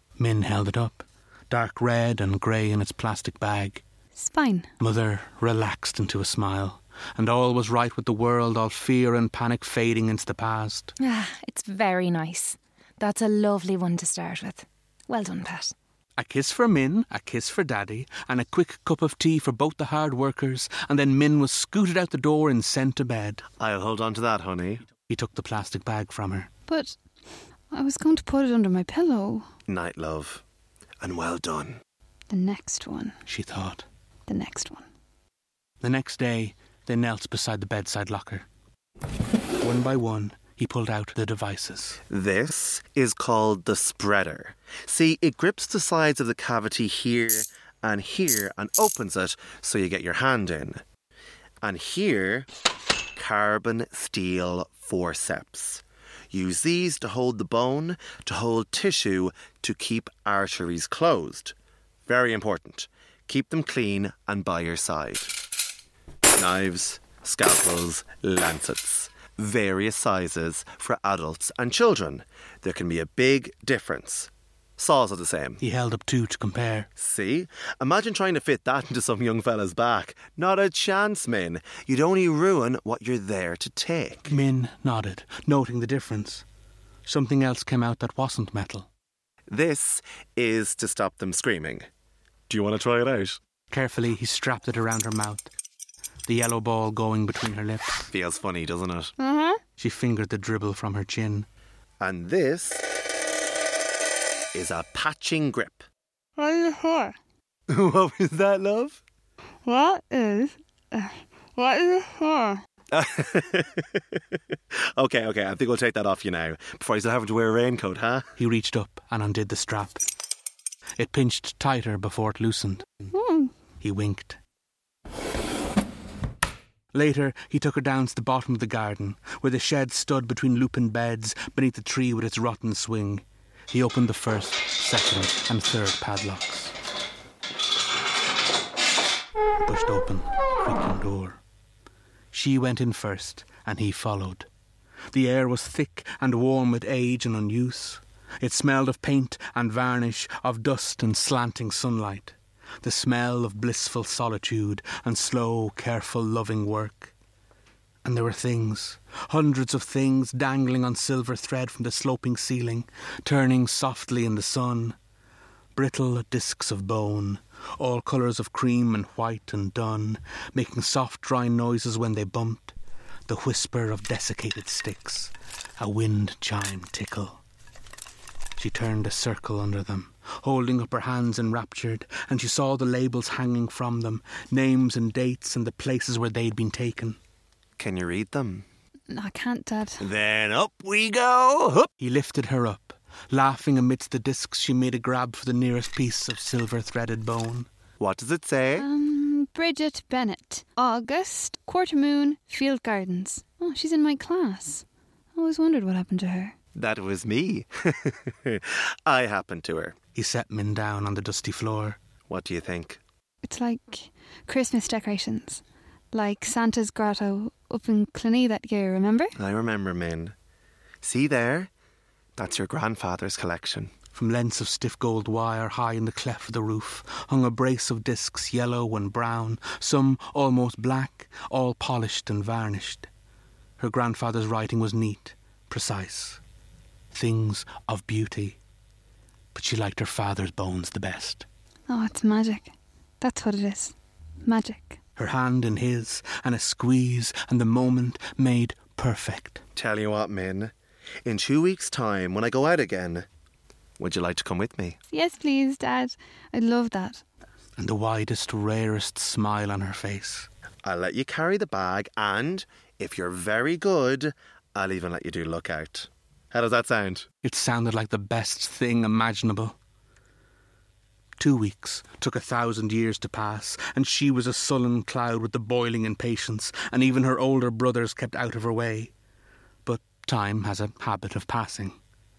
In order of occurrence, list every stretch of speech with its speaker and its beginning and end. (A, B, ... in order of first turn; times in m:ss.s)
0:00.2-0:03.8 A
0:04.2-0:04.7 B
0:04.8-0:10.9 A
0:11.0-0:15.7 C
0:16.2-0:23.4 A
0:23.6-0:24.8 D
0:25.1-0:26.5 A
0:26.7-0:27.0 B
0:27.7-0:29.5 B
0:29.7-0:30.4 D
0:31.0-0:31.8 D
0:32.3-0:33.2 B
0:33.3-0:33.9 A
0:34.3-0:34.8 B
0:35.8-0:38.5 A
0:39.6-0:42.0 A
0:42.1-0:50.8 D
0:51.6-0:52.5 D
0:53.1-1:01.5 D
1:02.0-1:05.4 D
1:06.3-1:15.6 D
1:15.6-1:16.9 A
1:17.0-1:24.3 D
1:24.3-1:26.4 A
1:27.0-1:28.9 A
1:29.5-1:31.9 D
1:32.5-1:33.4 D
1:33.7-1:35.5 A
1:36.3-1:38.1 A
1:38.1-1:39.1 D
1:39.2-1:39.6 B
1:39.8-1:41.5 A
1:42.0-1:42.9 D
1:44.5-1:45.8 D
1:46.4-1:47.1 B
1:47.7-1:49.0 D
1:49.6-1:52.6 B
1:52.9-1:58.3 D
1:58.4-2:00.0 A
2:01.0-2:02.8 A
2:03.1-2:03.5 B
2:03.8-2:04.4 A
2:06.9-2:16.7 A
2:19.6-2:21.4 A
2:22.3-2:24.5 A
2:25.1-2:37.1 A
2:38.0-2:45.0 A
2:45.8-2:52.8 A
2:53.3-2:57.4 A
2:58.6-3:07.2 A
3:07.8-3:08.6 D
3:09.1-3:10.0 B
3:10.0-3:11.9 D
3:12.0-3:17.7 A
3:18.0-3:18.9 D
3:18.8-3:26.5 B
3:26.8-3:30.0 D
3:30.1-3:32.0 A
3:32.3-3:33.0 D
3:33.4-3:39.4 B
3:39.4-3:40.3 D
3:41.0-3:41.7 D
3:42.4-3:43.9 D
3:44.1-3:53.1 A
3:53.8-3:56.4 A
3:57.1-3:58.6 A
3:59.5-4:01.5 A
4:01.9-4:05.0 B
4:05.2-4:09.6 A
4:09.8-4:10.7 D
4:11.2-4:13.3 D
4:14.0-4:15.0 D
4:15.1-4:17.2 B
4:17.8-4:20.5 A
4:20.8-4:27.3 D
4:27.4-4:29.8 A
4:31.4-4:39.1 A
4:39.8-4:42.0 A